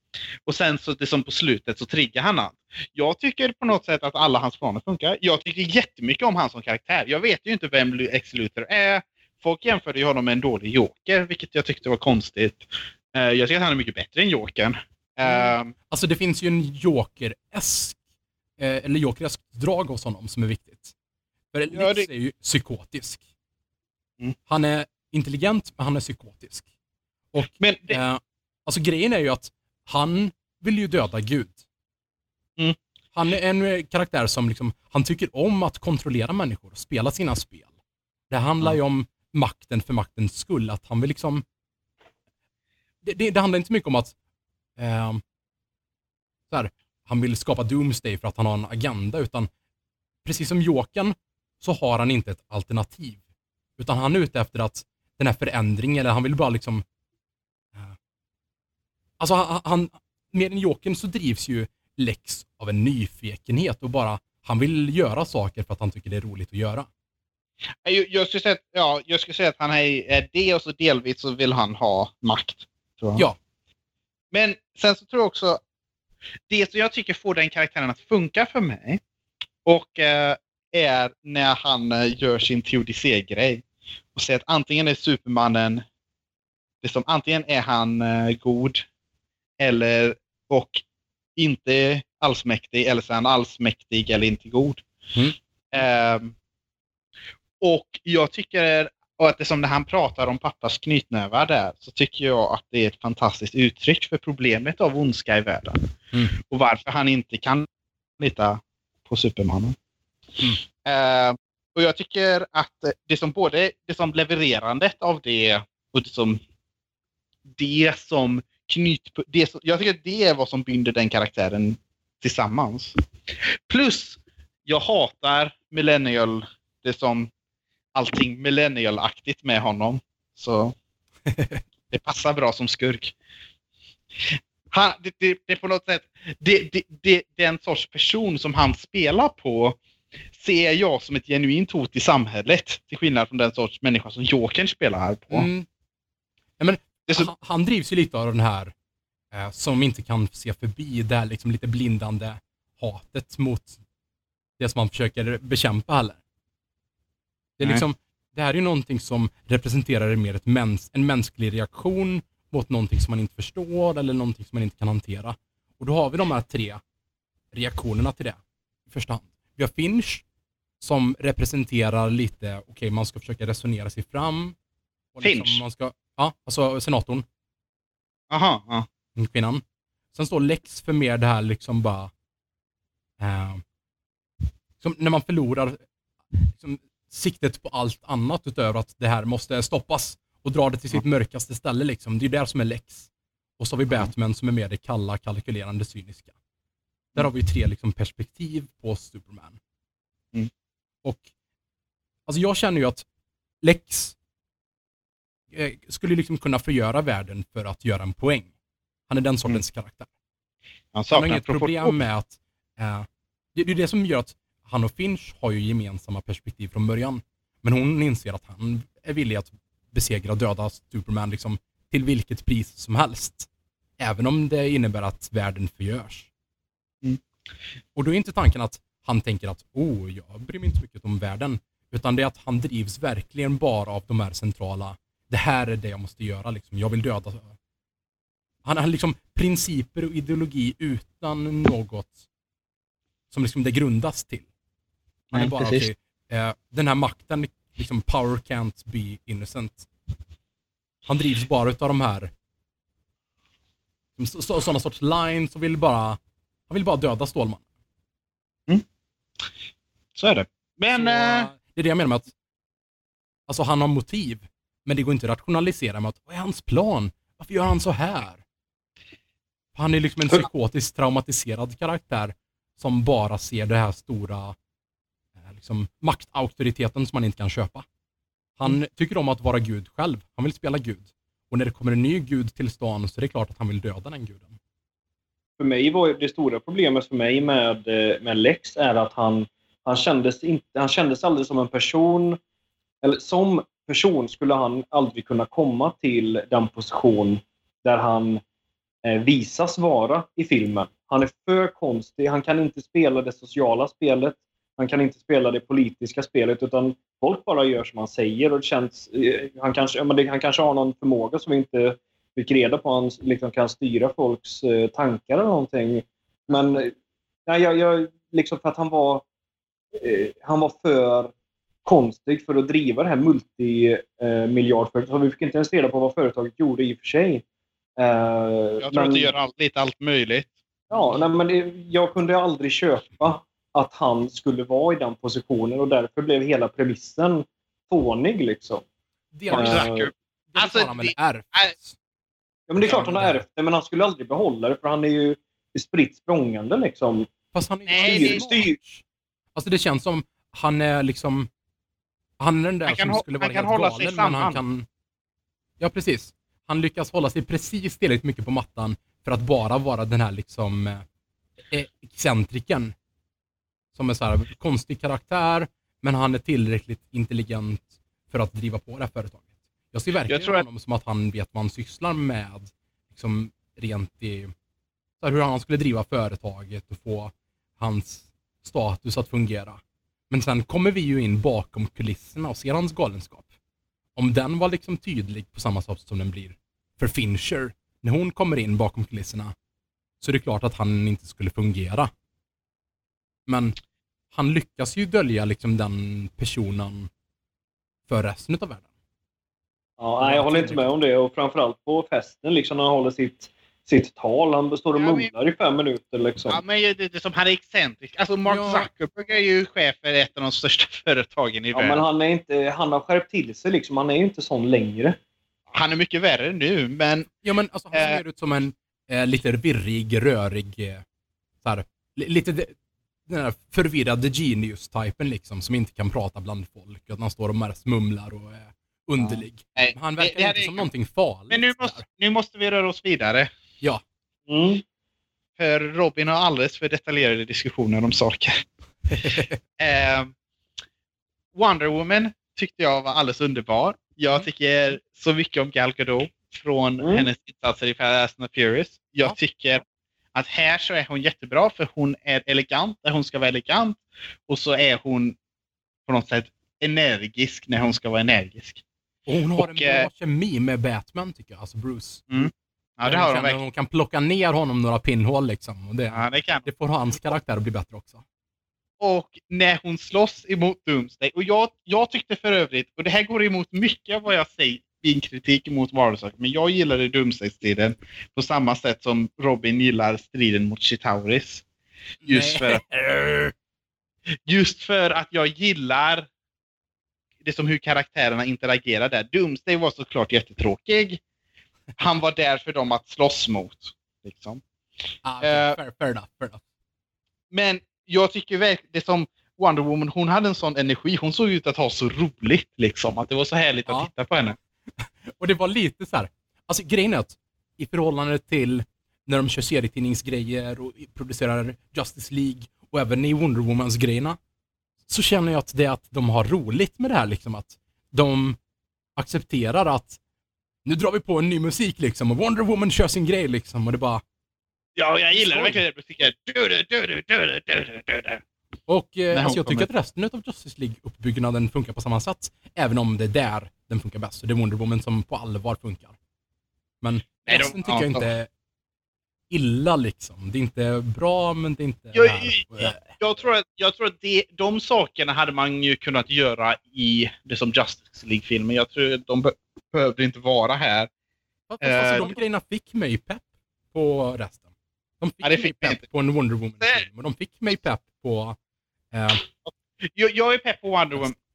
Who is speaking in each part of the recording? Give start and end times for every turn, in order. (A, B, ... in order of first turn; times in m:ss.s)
0:00.5-0:15.7 A
0:15.2-0:18.0 B
0:18.6-0:20.9 B
0:21.5-0:23.2 B
0:21.7-0:22.1 A
0:24.5-0:26.7 B
0:27.3-0:31.6 B
0:27.6-0:28.0 A
0:33.1-0:37.7 B
0:38.3-0:41.4 B
0:43.0-0:44.1 B
0:44.8-0:45.2 B
0:46.5-0:49.5 B
0:50.2-0:53.2 B
0:53.8-0:56.8 B
0:59.2-1:06.9 B
1:07.8-1:13.3 A
1:14.3-1:15.6 A
1:16.5-1:19.0 A
1:19.6-1:23.6 A
1:24.2-1:25.8 A
1:26.8-1:28.9 A
1:29.6-1:30.8 A
1:31.4-1:34.8 A
1:35.7-1:36.4 A
1:37.6-1:45.8 A
1:46.4-1:47.7 A
1:48.2-1:49.8 A
1:50.8-1:56.4 A
1:57.6-2:03.0 A
2:03.7-2:07.3 A
2:07.9-2:10.8 A
2:11.3-2:11.6 B
2:11.9-2:13.1 A
2:14.2-2:19.8 A
2:20.3-2:25.5 A
2:25.3-2:25.7 B
2:26.6-2:28.7 B
2:29.3-2:33.8 B
2:34.6-2:36.2 B
2:37.6-2:46.8 B
2:47.5-2:50.2 B
2:50.8-2:54.6 B
2:55.1-2:57.2 B
2:55.2-2:55.6 A
2:58.3-2:58.9 A
2:59.2-2:59.6 B
3:00.1-3:02.1 B
3:03.2-3:03.6 B
3:04.8-3:05.8 B
3:06.3-3:16.3 B
3:17.2-3:19.6 B
3:22.3-3:23.1 B
3:23.6-3:24.2 B
3:25.5-3:28.5 B
3:29.1-3:30.1 B
3:30.9-3:32.0 A
3:31.1-3:43.5 B
3:44.0-3:46.3 B
3:48.0-3:57.6 B
3:58.6-4:02.2 B
4:03.3-4:04.5 B
4:05.3-4:05.9 A
4:05.3-4:09.9 B
4:11.0-4:12.3 B
4:14.2-4:17.6 B
4:20.2-4:21.5 A
4:21.0-4:22.3 B
4:23.5-4:28.4 B
4:29.8-4:34.6 B
4:35.4-4:37.8 B
4:38.6-4:44.6 B
4:45.6-4:52.4 C
4:53.0-4:58.4 C
4:59.0-5:16.9 C
5:17.5-5:19.2 C
5:20.0-5:21.3 C
5:21.8-5:27.4 C
5:28.0-5:29.3 C
5:28.8-5:30.6 A
5:30.9-5:38.8 C
5:39.3-5:42.0 B
5:39.5-5:41.7 A
5:39.5-5:40.1 C
5:42.7-5:47.3 C
5:42.8-5:43.4 B
5:47.5-5:49.0 B
5:47.9-5:48.5 A
5:48.0-5:48.8 C
5:49.6-5:51.5 B
5:52.4-5:54.9 B
5:52.9-5:54.6 A
5:55.8-6:01.0 B
6:01.7-6:02.9 B
6:03.9-6:14.5 B
6:10.3-6:10.6 A
6:15.2-6:23.5 B
6:24.2-6:29.5 B
6:30.2-6:32.1 B
6:33.5-6:33.8 B
6:34.3-6:37.1 B
6:38.1-6:38.8 B
6:40.0-6:46.6 C
6:40.2-6:40.9 B
6:45.0-6:45.3 A
6:46.5-6:52.0 A
6:48.5-6:48.9 B
6:51.7-6:55.2 C
6:55.7-6:57.3 A
6:57.4-7:01.0 B
6:57.9-6:58.2 A
7:01.6-7:02.8 B
7:03.3-7:12.0 B
7:09.2-7:10.9 A
7:11.5-7:13.5 A
7:14.5-7:14.8 C
7:15.6-7:18.6 A
7:19.2-7:19.6 B
7:19.8-7:20.3 A
7:21.5-7:35.4 A
7:27.0-7:27.3 C
7:36.1-7:38.8 A
7:39.3-7:42.2 B
7:39.6-7:40.1 A
7:42.3-7:43.6 A
7:43.0-7:48.2 B
7:46.1-7:46.7 A
7:49.0-8:01.6 A
8:02.2-8:03.5 B
8:02.3-8:02.8 A
8:04.5-8:06.3 A
8:07.4-8:11.2 A
8:12.0-8:14.6 A
8:15.2-8:16.6 B
8:15.4-8:15.8 A
8:17.5-8:24.6 A
8:25.0-8:34.4 B
8:35.1-8:38.6 B
8:39.2-8:40.2 B
8:40.8-8:44.2 B
8:45.0-8:48.4 A
8:45.3-8:45.8 B
8:48.9-8:56.2 B
8:49.3-8:49.9 A
8:57.0-8:58.5 B
8:57.4-8:58.3 A
8:59.5-9:03.1 B
9:02.1-9:11.1 A
9:11.7-9:14.6 B
9:11.8-9:12.4 A
9:15.2-9:18.6 B
9:15.4-9:16.1 A
9:19.1-9:19.4 B
9:19.7-9:21.4 A